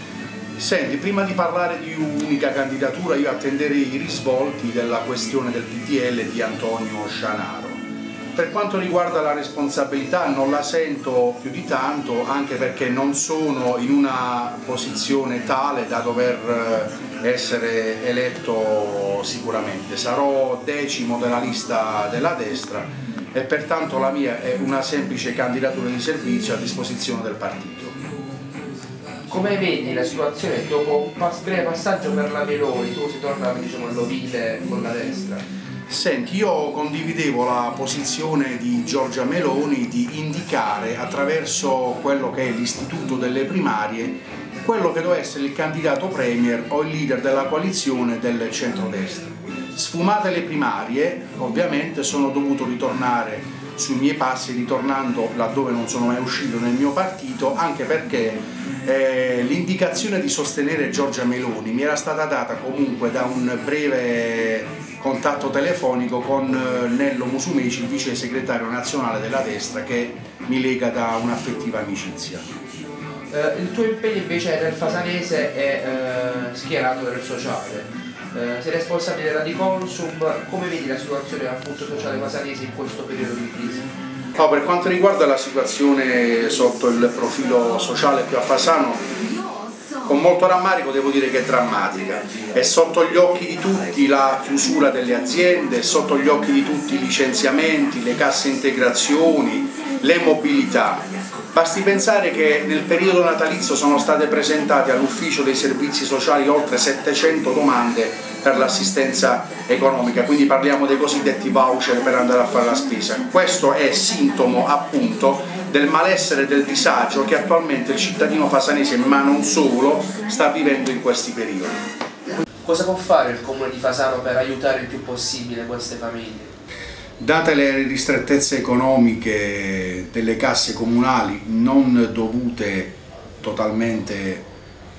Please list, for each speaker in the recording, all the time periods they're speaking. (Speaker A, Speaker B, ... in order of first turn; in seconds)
Speaker A: 0.6-7.8, 8.3-27.9, 35.9-72.4, 84.4-89.0, 90.0-121.8, 127.2-134.4
Speaker B: 29.3-35.4, 73.3-83.8, 122.6-126.5